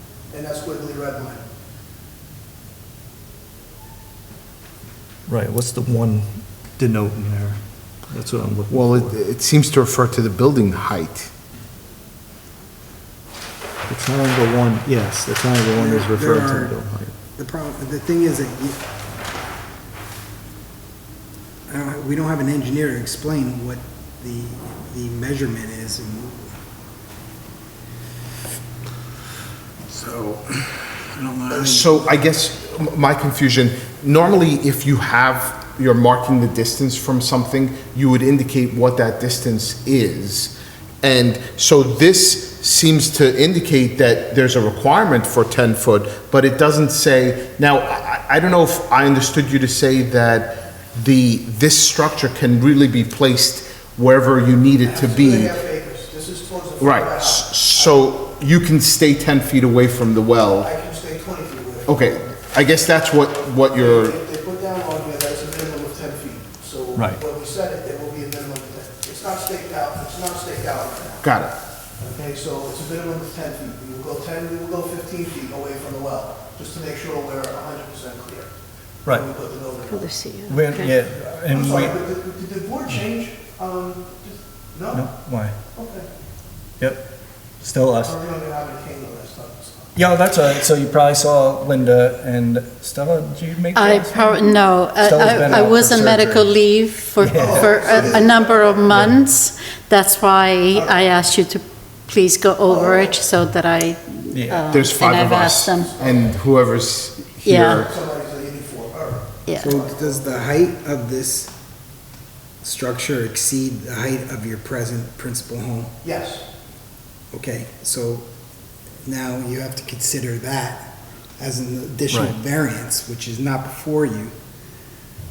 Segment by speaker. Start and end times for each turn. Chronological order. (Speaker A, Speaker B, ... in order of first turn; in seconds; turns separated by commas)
Speaker A: 0.3-1.4, Speaker B: 5.3-9.2, Speaker C: 8.7-11.3, Speaker B: 13.9-17.2, Speaker D: 15.8-16.8, Speaker D: 17.4-18.8, Speaker D: 21.7-26.5, Speaker D: 29.9-32.2, Speaker C: 31.5-55.5, Speaker A: 54.8-58.0, Speaker C: 56.8-60.7, Speaker A: 60.6-61.9, Speaker C: 61.9-64.2, Speaker A: 63.7-71.2, Speaker B: 67.0-67.2, Speaker C: 71.2-71.6, Speaker A: 72.0-78.5, Speaker A: 79.1-80.1, Speaker E: 79.9-80.9, Speaker B: 80.5-82.0, Speaker A: 81.5-85.0, Speaker B: 84.9-85.6, Speaker A: 85.8-86.1, Speaker B: 86.8-87.1, Speaker B: 87.6-88.2, Speaker A: 88.1-89.9, Speaker B: 90.0-96.5, Speaker E: 93.7-105.9, Speaker B: 97.2-98.2, Speaker A: 97.3-99.0, Speaker B: 98.9-99.2, Speaker A: 100.7-101.1, Speaker A: 102.7-103.2, Speaker B: 104.3-104.8, Speaker C: 104.7-107.9, Speaker A: 105.9-106.2, Speaker E: 107.5-107.8, Speaker A: 107.7-110.1, Speaker E: 109.5-109.8, Speaker D: 109.5-111.5, Speaker D: 112.6-116.0, Speaker A: 116.0-116.4, Speaker D: 117.3-118.3, Speaker D: 119.0-124.3, Speaker B: 122.1-122.4